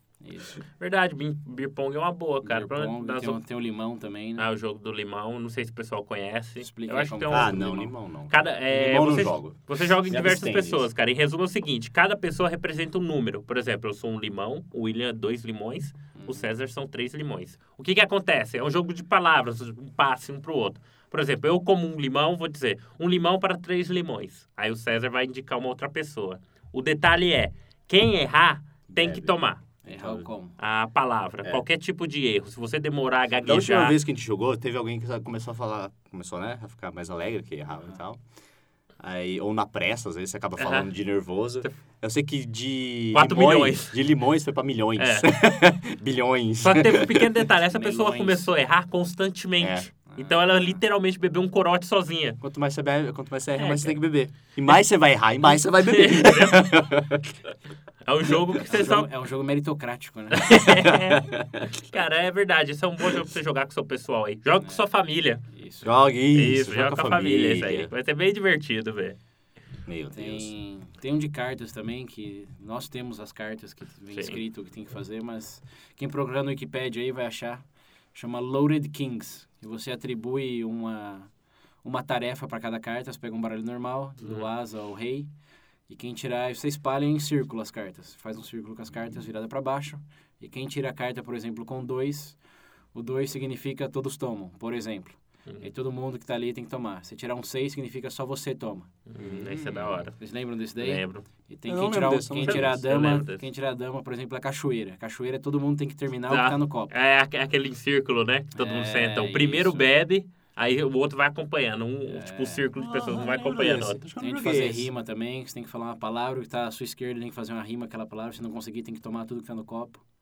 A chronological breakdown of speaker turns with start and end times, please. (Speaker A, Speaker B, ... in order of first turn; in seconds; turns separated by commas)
Speaker A: 0.2-0.6, Speaker B: 0.8-3.4, Speaker A: 2.4-4.4, Speaker B: 4.4-29.6, Speaker A: 6.6-7.9, Speaker C: 7.3-10.9, Speaker A: 16.1-16.5, Speaker C: 28.9-30.2, Speaker A: 29.8-30.5, Speaker B: 30.6-34.0, Speaker C: 33.4-38.2, Speaker C: 39.0-47.4, Speaker B: 40.6-40.9, Speaker B: 43.1-43.9, Speaker B: 45.0-45.3, Speaker B: 46.6-52.4, Speaker A: 47.6-48.5, Speaker C: 49.6-49.9, Speaker A: 50.1-50.8, Speaker C: 52.4-57.3, Speaker B: 53.6-54.0, Speaker B: 55.9-56.7, Speaker B: 58.0-59.1, Speaker A: 58.7-60.6, Speaker B: 60.3-65.4, Speaker C: 60.8-61.7, Speaker A: 65.5-65.9, Speaker C: 65.8-67.9, Speaker B: 66.3-69.2, Speaker C: 69.9-70.5, Speaker A: 70.1-77.6, Speaker A: 78.1-81.3, Speaker A: 81.8-85.3, Speaker B: 84.2-84.5, Speaker A: 85.9-92.4, Speaker A: 92.9-98.9, Speaker B: 99.1-100.1, Speaker C: 99.2-100.1, Speaker A: 100.2-106.9, Speaker B: 100.8-101.2, Speaker C: 101.7-102.8, Speaker B: 102.4-103.4, Speaker B: 106.3-114.0, Speaker A: 108.5-109.8, Speaker A: 112.1-112.7, Speaker C: 112.7-114.9, Speaker A: 114.2-120.0